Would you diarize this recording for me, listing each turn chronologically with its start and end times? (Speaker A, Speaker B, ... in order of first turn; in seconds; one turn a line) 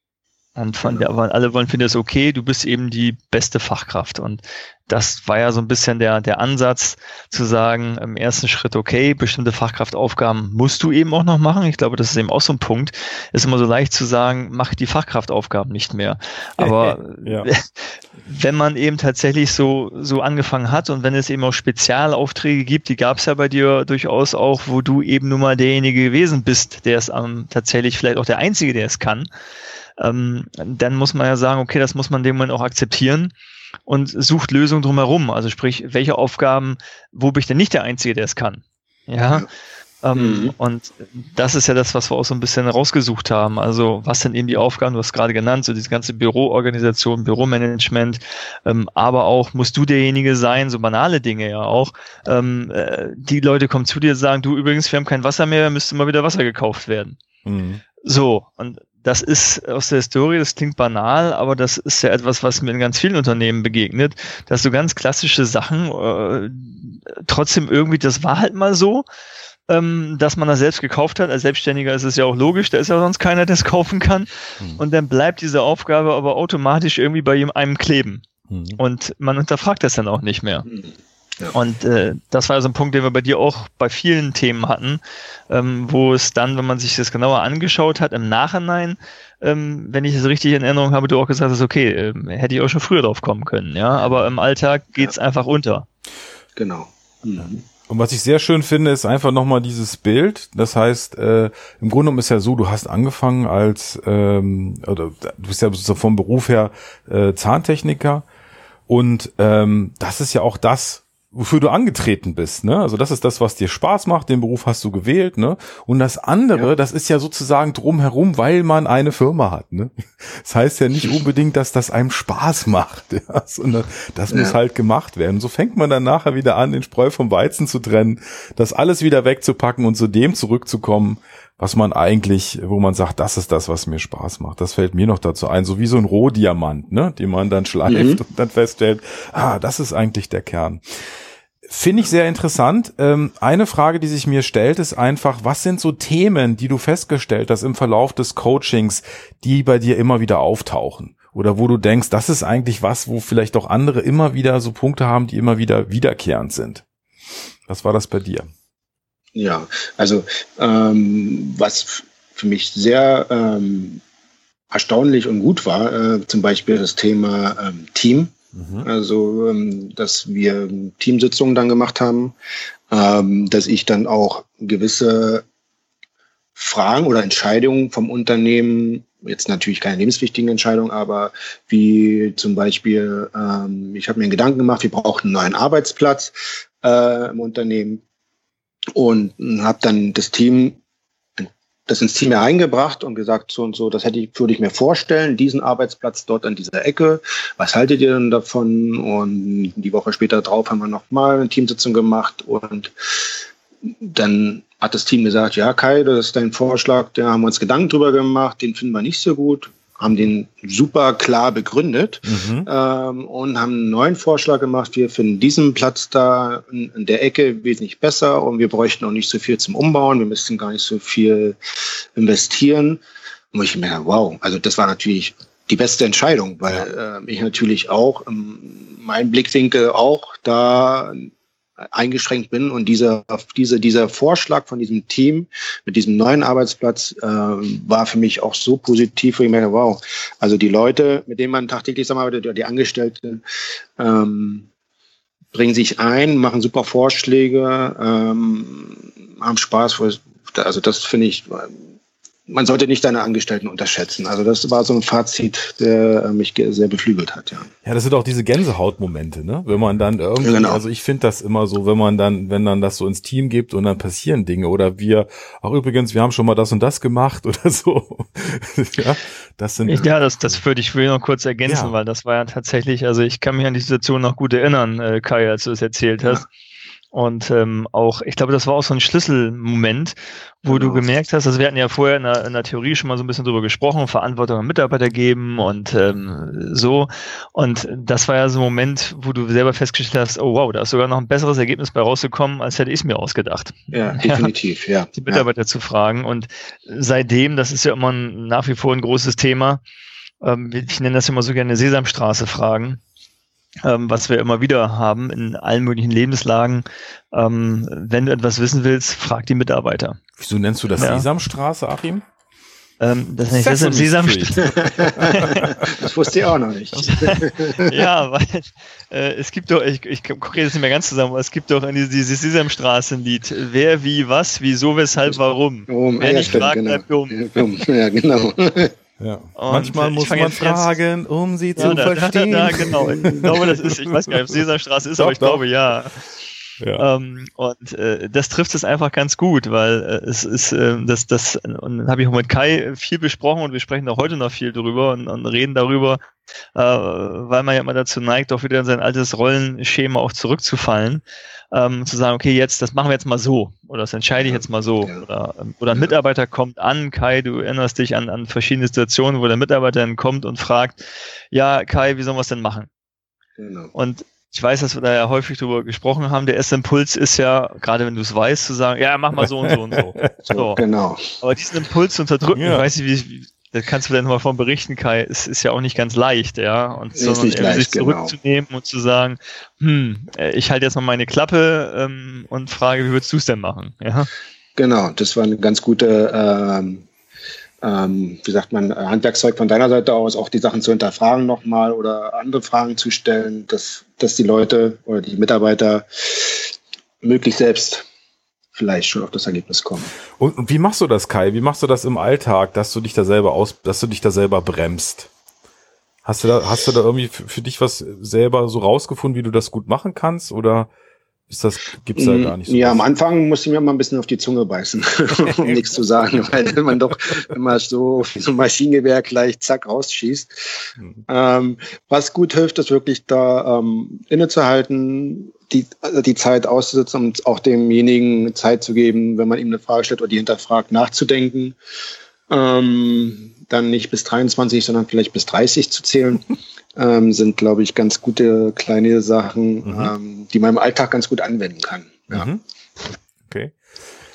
Speaker A: 0.6-29.3
Speaker B: 0.8-1.1
Speaker C: 16.6-17.5
Speaker A: 30.0-33.3
Speaker A: 33.9-39.5
Speaker A: 40.0-57.2
Speaker B: 40.1-40.5
Speaker C: 57.5-57.8
Speaker A: 58.0-69.0
Speaker A: 69.7-78.2
Speaker C: 78.5-78.8
Speaker A: 78.8-80.7
Speaker B: 80.7-81.5
Speaker A: 81.5-95.8
Speaker B: 96.5-97.6
Speaker C: 97.9-108.2
Speaker C: 108.9-140.8
Speaker B: 124.3-124.5
Speaker B: 137.8-138.2
Speaker C: 141.7-156.8
Speaker C: 157.7-158.5
Speaker B: 159.3-164.0
Speaker B: 164.7-172.3
Speaker C: 168.5-168.9
Speaker B: 172.9-175.4
Speaker B: 176.5-188.0
Speaker B: 188.9-190.8
Speaker B: 191.4-223.0
Speaker C: 212.2-212.7
Speaker B: 223.5-231.3
Speaker B: 231.9-243.4
Speaker B: 244.0-244.7
Speaker B: 245.5-251.8
Speaker B: 252.5-257.7
Speaker C: 257.8-270.6
Speaker B: 260.4-260.8
Speaker A: 269.9-276.4
Speaker C: 271.6-271.9
Speaker A: 277.1-294.5
Speaker B: 280.7-281.1
Speaker B: 293.9-295.4
Speaker A: 295.2-299.8
Speaker A: 300.4-303.0
Speaker A: 303.8-310.2
Speaker C: 310.4-312.2
Speaker A: 311.0-311.3
Speaker A: 313.0-315.7
Speaker C: 313.5-315.9
Speaker B: 314.8-318.1
Speaker A: 316.9-327.5
Speaker B: 325.9-328.9
Speaker C: 329.2-334.4
Speaker A: 329.6-330.9
Speaker B: 331.8-332.0
Speaker A: 331.8-336.2
Speaker B: 332.7-333.6
Speaker C: 335.2-335.6
Speaker C: 336.8-337.0
Speaker A: 337.0-346.2
Speaker A: 346.7-361.0
Speaker B: 354.4-355.2
Speaker A: 361.5-362.9
Speaker B: 363.6-363.9
Speaker A: 363.9-370.8
Speaker C: 369.4-370.3
Speaker B: 370.5-371.4
Speaker A: 371.4-384.3
Speaker C: 372.5-372.9
Speaker B: 377.1-378.3
Speaker B: 384.8-387.1
Speaker B: 387.8-398.1
Speaker B: 398.7-400.1
Speaker C: 400.4-405.3
Speaker C: 406.2-410.9
Speaker C: 411.5-413.0
Speaker B: 412.1-431.8
Speaker B: 432.5-442.5
Speaker C: 439.8-440.1
Speaker C: 442.3-442.6
Speaker C: 443.5-443.7